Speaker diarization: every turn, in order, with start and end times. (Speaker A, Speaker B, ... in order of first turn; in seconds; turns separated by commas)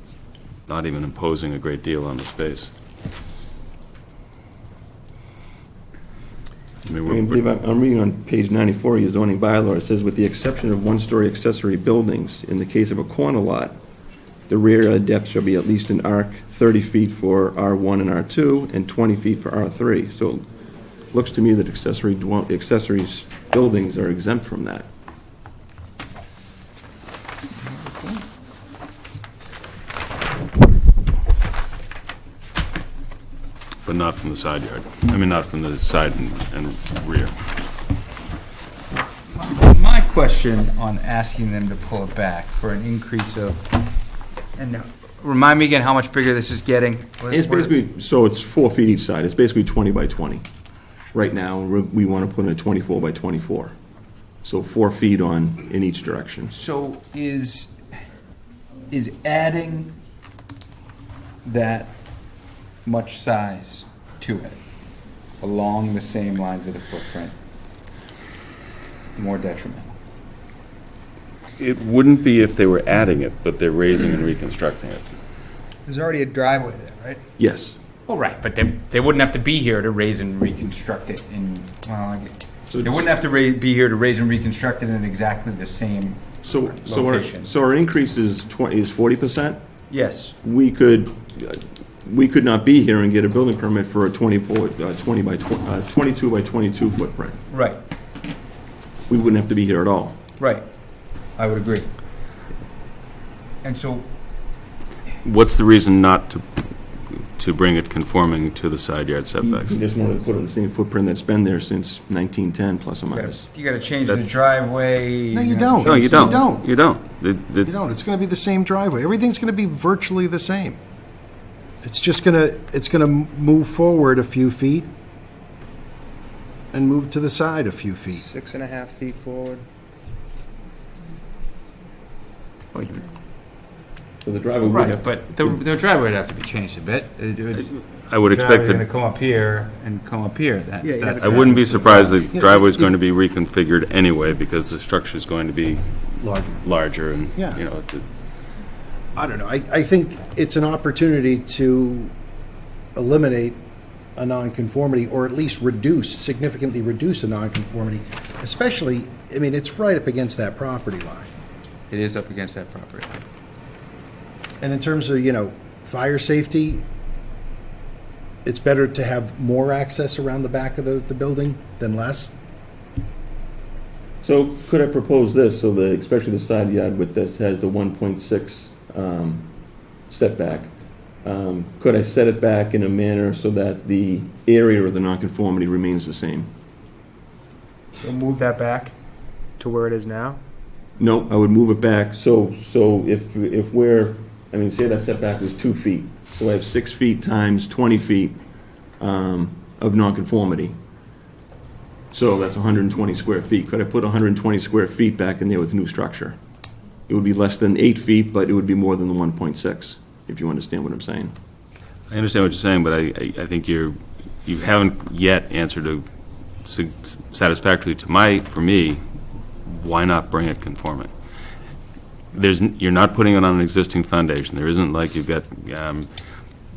Speaker A: 0.7-2.7, Speaker A: 6.8-7.4, Speaker B: 7.0-13.8, Speaker B: 14.5-20.4, Speaker B: 21.1-24.9, Speaker C: 27.6-28.2, Speaker A: 33.8-37.3, Speaker C: 39.3-43.7, Speaker C: 44.5-47.7, Speaker B: 47.3-50.4, Speaker B: 51.1-53.7, Speaker B: 54.4-56.5, Speaker C: 56.5-57.7, Speaker C: 58.9-59.9, Speaker C: 61.4-62.0, Speaker C: 62.8-64.6, Speaker C: 65.4-67.3, Speaker C: 69.1-69.9, Speaker A: 71.6-75.0, Speaker D: 75.9-77.2, Speaker B: 77.4-77.8, Speaker C: 78.1-87.5, Speaker B: 82.7-83.0, Speaker B: 86.4-89.6, Speaker C: 89.9-90.3, Speaker B: 90.4-97.4, Speaker C: 97.5-97.8, Speaker B: 99.1-100.2, Speaker C: 100.4-100.7, Speaker C: 101.4-101.9, Speaker C: 103.6-104.1, Speaker A: 105.2-106.5, Speaker A: 107.3-109.8, Speaker B: 109.4-113.5, Speaker C: 113.1-116.4, Speaker E: 115.3-116.7, Speaker A: 115.8-117.7, Speaker E: 117.6-120.8, Speaker E: 121.8-124.9, Speaker E: 126.7-128.2, Speaker D: 128.2-129.6, Speaker C: 132.7-133.0, Speaker B: 134.2-135.6, Speaker C: 134.7-142.1, Speaker A: 137.6-138.8, Speaker E: 140.8-142.9, Speaker A: 141.2-145.9, Speaker E: 146.2-146.6, Speaker A: 146.6-148.1, Speaker E: 147.3-147.6, Speaker E: 149.2-152.1, Speaker E: 152.9-153.6, Speaker E: 154.2-161.3, Speaker C: 161.9-163.2, Speaker E: 164.6-166.8, Speaker E: 168.4-172.3, Speaker B: 174.2-179.5, Speaker B: 180.1-180.7, Speaker B: 181.2-186.5, Speaker D: 188.0-188.9, Speaker D: 189.6-190.4, Speaker B: 191.0-198.4, Speaker B: 199.0-200.7, Speaker B: 202.1-206.4, Speaker B: 207.1-211.3, Speaker A: 212.1-216.1, Speaker A: 216.6-219.0, Speaker A: 219.7-221.1, Speaker A: 222.3-226.1